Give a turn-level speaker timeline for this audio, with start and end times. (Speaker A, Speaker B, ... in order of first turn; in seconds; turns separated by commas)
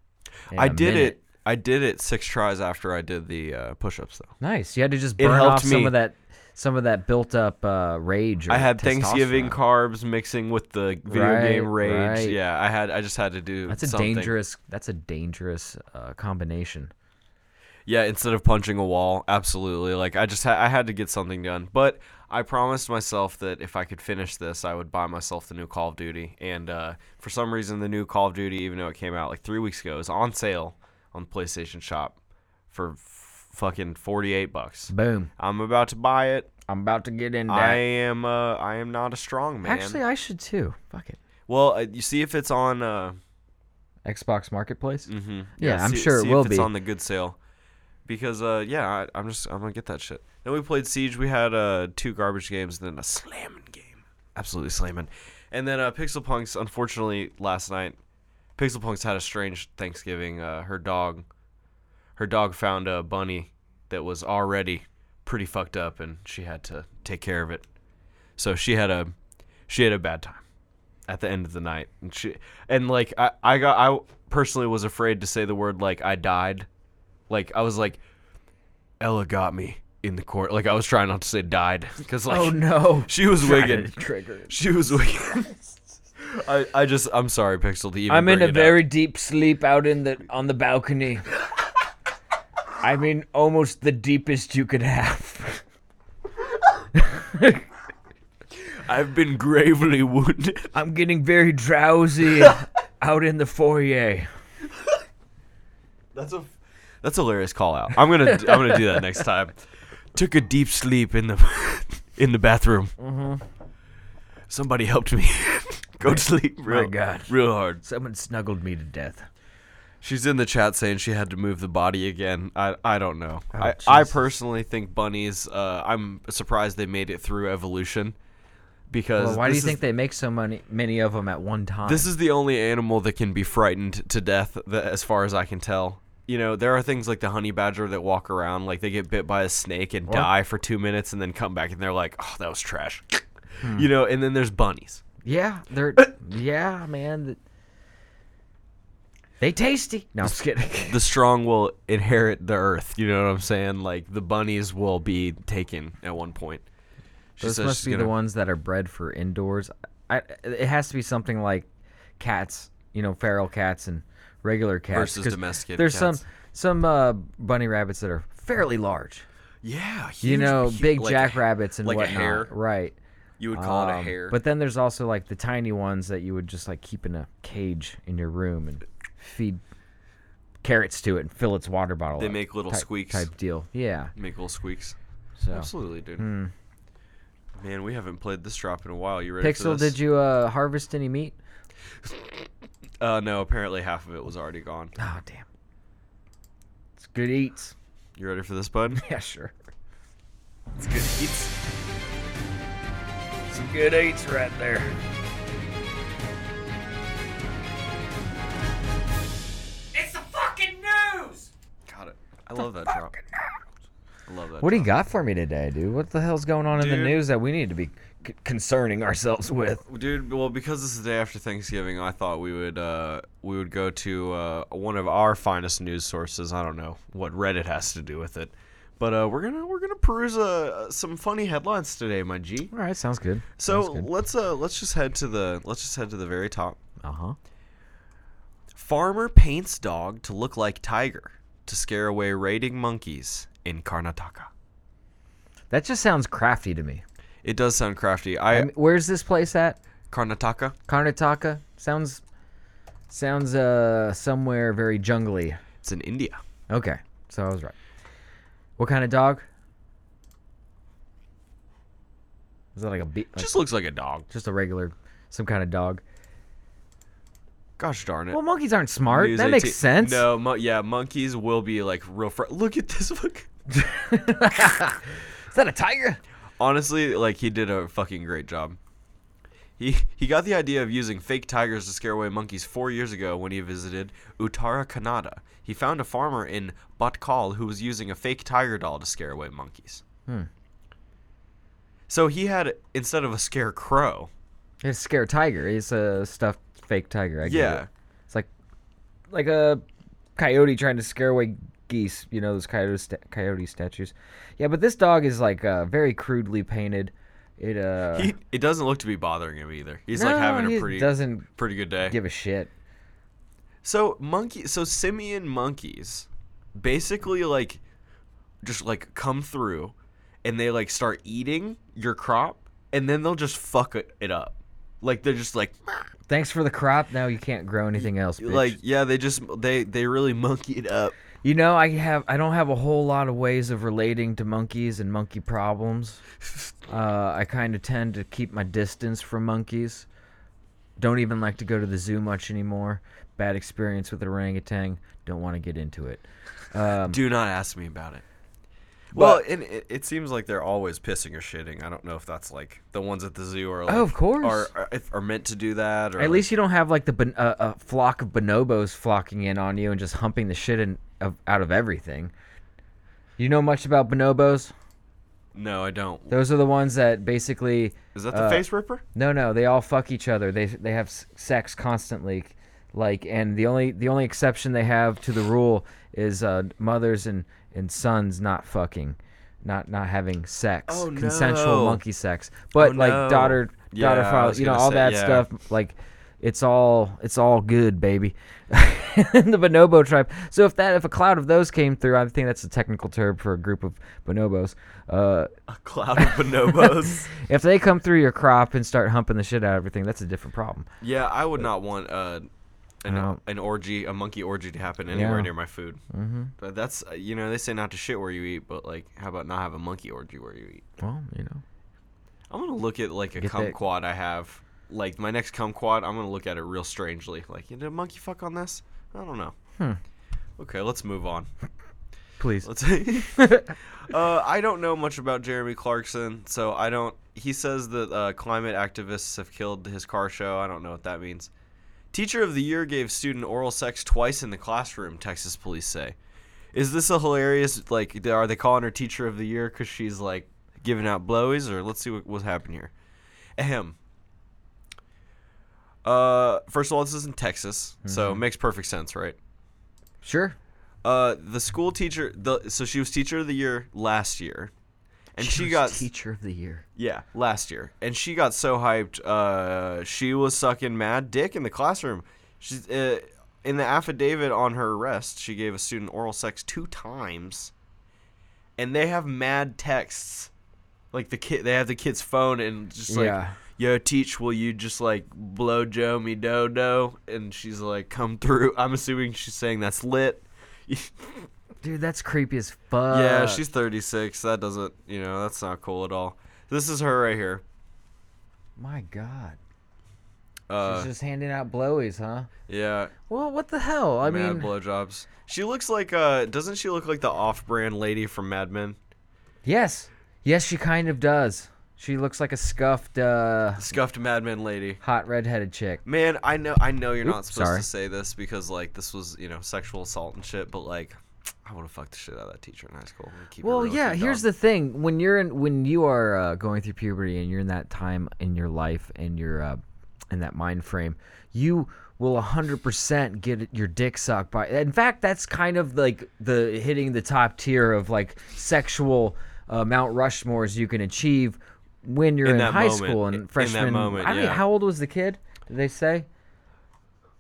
Speaker A: 0.5-1.2, Speaker B: 0.5-4.3, Speaker A: 4.4-9.6, Speaker B: 5.2-6.0, Speaker B: 8.5-14.3, Speaker A: 11.1-12.4, Speaker A: 13.7-16.9, Speaker B: 17.9-32.2, Speaker B: 32.7-36.5, Speaker A: 34.9-35.3, Speaker A: 36.7-37.8, Speaker B: 37.5-40.0, Speaker A: 39.6-41.2, Speaker B: 41.5-43.2, Speaker A: 44.0-46.7, Speaker B: 45.1-47.4, Speaker B: 48.1-58.0, Speaker B: 58.6-61.3, Speaker B: 62.2-67.7, Speaker B: 68.4-69.1, Speaker B: 69.7-70.4, Speaker B: 71.1-76.7, Speaker B: 77.3-78.0, Speaker B: 79.0-85.6, Speaker A: 82.3-84.6, Speaker B: 86.2-88.8, Speaker A: 88.1-91.3, Speaker A: 92.8-95.6, Speaker A: 96.9-97.7, Speaker B: 98.6-100.7, Speaker A: 100.7-104.3, Speaker B: 106.1-109.6, Speaker A: 108.3-109.0, Speaker B: 110.1-112.9, Speaker A: 113.0-113.4, Speaker B: 114.5-117.8, Speaker A: 116.1-119.3, Speaker B: 120.0-128.2, Speaker A: 123.5-124.2, Speaker B: 128.9-129.8, Speaker A: 129.2-132.1, Speaker B: 131.9-145.0, Speaker A: 145.2-147.4, Speaker A: 149.4-151.0, Speaker B: 150.2-156.7, Speaker B: 157.4-158.1, Speaker A: 157.4-169.2, Speaker B: 164.9-166.2, Speaker B: 169.6-172.5, Speaker A: 170.2-173.0, Speaker B: 173.4-174.4, Speaker A: 173.5-179.6, Speaker A: 180.6-184.1, Speaker B: 182.2-183.3, Speaker B: 184.2-185.0, Speaker A: 185.4-186.5, Speaker B: 185.5-186.2, Speaker B: 187.6-190.0, Speaker A: 189.4-191.4, Speaker B: 192.0-192.5, Speaker B: 193.0-194.9, Speaker A: 195.0-195.5, Speaker A: 197.0-197.7, Speaker B: 198.2-199.0, Speaker A: 199.0-199.5, Speaker B: 200.8-201.5, Speaker A: 203.5-205.0, Speaker A: 209.9-211.5, Speaker B: 211.9-213.2, Speaker A: 212.8-213.2, Speaker B: 214.3-214.9, Speaker A: 214.6-219.8, Speaker B: 216.8-217.2, Speaker B: 219.9-232.7, Speaker A: 232.7-234.1, Speaker B: 233.6-236.8, Speaker A: 237.0-237.4, Speaker B: 238.7-244.5, Speaker A: 245.7-247.0, Speaker B: 247.4-248.7, Speaker A: 248.5-249.8, Speaker B: 250.1-250.8, Speaker A: 250.9-252.2, Speaker A: 253.1-255.6, Speaker B: 255.8-256.4, Speaker A: 256.7-257.8, Speaker A: 258.8-259.4, Speaker A: 262.8-263.6, Speaker B: 263.4-264.3, Speaker A: 264.3-266.0, Speaker B: 267.8-268.4, Speaker A: 268.3-270.3, Speaker B: 269.1-273.5, Speaker A: 273.7-276.2, Speaker B: 276.6-278.8, Speaker B: 279.8-290.0, Speaker B: 292.1-294.3, Speaker A: 294.8-298.5, Speaker B: 297.4-297.9, Speaker A: 299.3-299.8, Speaker A: 300.4-308.3, Speaker B: 308.1-312.2, Speaker A: 310.1-311.5, Speaker A: 312.0-312.7, Speaker B: 313.8-317.8, Speaker B: 318.6-326.1, Speaker A: 326.3-328.8, Speaker B: 328.4-331.1, Speaker A: 331.4-336.2, Speaker A: 336.9-340.1, Speaker A: 341.0-347.2, Speaker B: 347.1-348.2, Speaker B: 349.1-356.5, Speaker A: 349.1-349.4, Speaker A: 353.9-354.7, Speaker A: 356.2-362.3, Speaker A: 363.4-364.7, Speaker B: 365.5-366.3, Speaker A: 366.3-395.5, Speaker B: 368.1-369.0, Speaker B: 380.9-382.0, Speaker B: 382.8-385.5, Speaker B: 395.7-397.3, Speaker A: 396.2-400.9, Speaker B: 401.0-402.5, Speaker B: 403.0-406.0, Speaker A: 403.1-403.4, Speaker A: 405.1-405.5, Speaker A: 406.1-406.5, Speaker B: 406.6-410.8, Speaker A: 411.0-411.6, Speaker B: 412.5-419.6, Speaker A: 413.4-413.8, Speaker B: 420.6-421.5, Speaker A: 422.4-422.7, Speaker B: 422.6-431.5, Speaker A: 423.3-423.8, Speaker B: 432.1-436.2, Speaker B: 436.7-442.9, Speaker B: 443.6-444.0, Speaker B: 446.0-449.4, Speaker A: 448.0-448.4, Speaker A: 450.2-450.6, Speaker B: 451.0-454.7, Speaker B: 455.3-456.1, Speaker A: 455.4-456.9, Speaker B: 457.0-467.7, Speaker B: 468.8-470.5, Speaker B: 471.1-481.5, Speaker A: 473.1-473.6, Speaker A: 481.8-483.6, Speaker B: 483.1-487.6, Speaker A: 488.8-489.6, Speaker B: 490.7-491.1, Speaker A: 490.8-492.5, Speaker B: 492.7-493.1, Speaker A: 493.3-494.7, Speaker B: 494.2-499.0, Speaker A: 499.6-503.9, Speaker B: 503.8-505.0, Speaker A: 505.0-506.0, Speaker B: 506.0-514.4, Speaker A: 507.2-507.9, Speaker A: 513.6-519.8, Speaker A: 520.3-536.3, Speaker B: 532.4-534.6